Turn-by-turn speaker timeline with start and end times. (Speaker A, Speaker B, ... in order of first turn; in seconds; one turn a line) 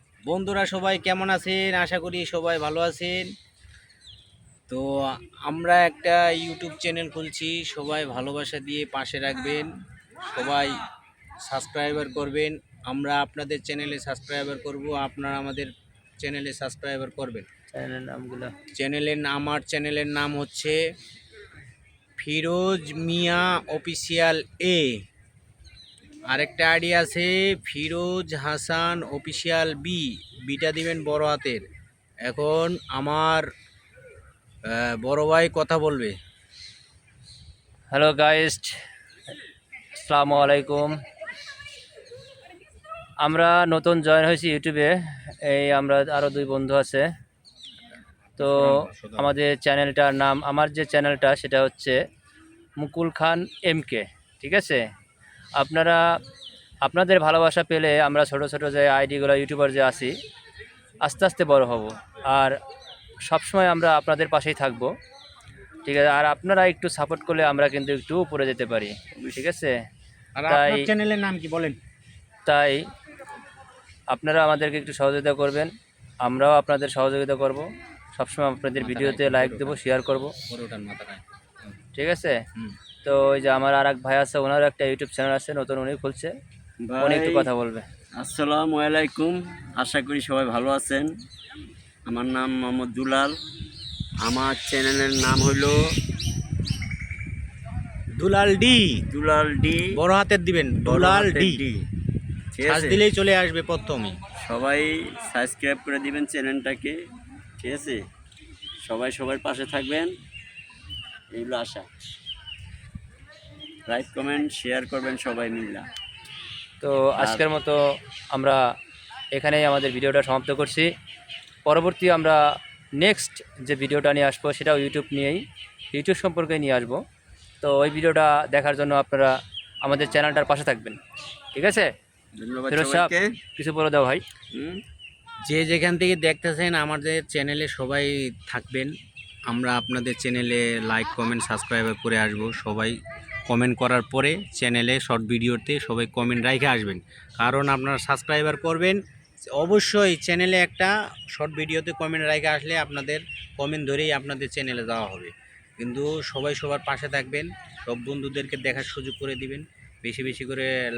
Speaker A: 0.2-3.3
Speaker A: 5.5-9.7
Speaker A: 10.2-10.8
Speaker A: 11.4-17.4
Speaker B: 17.7-18.5
Speaker A: 18.7-20.8
Speaker A: 22.2-24.9
Speaker A: 26.3-31.6
Speaker A: 32.2-33.5
Speaker A: 34.7-36.1
Speaker B: 37.9-38.7
Speaker B: 40.0-41.0
Speaker B: 43.2-47.1
Speaker A: 48.4-49.3
Speaker B: 48.4-52.0
Speaker B: 52.8-54.8
Speaker B: 55.5-56.0
Speaker B: 56.8-60.1
Speaker B: 61.0-62.6
Speaker B: 63.2-64.9
Speaker B: 65.8-69.7
Speaker C: 69.2-69.4
Speaker A: 70.3-71.8
Speaker B: 70.5-70.8
Speaker B: 72.5-72.8
Speaker B: 74.1-75.7
Speaker B: 76.2-77.6
Speaker B: 78.2-80.3
Speaker A: 78.8-79.8
Speaker A: 80.5-81.7
Speaker B: 81.9-82.4
Speaker B: 83.0-86.3
Speaker C: 86.8-87.5
Speaker B: 87.0-87.8
Speaker C: 88.2-91.1
Speaker C: 92.1-93.3
Speaker C: 94.2-95.8
Speaker A: 98.2-99.0
Speaker C: 99.1-100.0
Speaker A: 99.9-101.6
Speaker C: 100.8-101.8
Speaker C: 102.5-103.0
Speaker A: 102.6-104.2
Speaker C: 104.4-107.0
Speaker C: 107.6-108.0
Speaker C: 108.8-110.1
Speaker C: 111.3-111.8
Speaker C: 113.9-115.9
Speaker B: 116.8-117.8
Speaker C: 117.2-117.4
Speaker B: 118.3-118.6
Speaker B: 119.3-120.9
Speaker B: 121.6-122.4
Speaker B: 123.0-127.0
Speaker B: 127.6-131.0
Speaker B: 131.5-131.9
Speaker C: 132.4-133.3
Speaker B: 132.7-134.2
Speaker C: 134.5-134.8
Speaker A: 135.4-138.9
Speaker A: 139.5-149.0
Speaker A: 149.5-160.7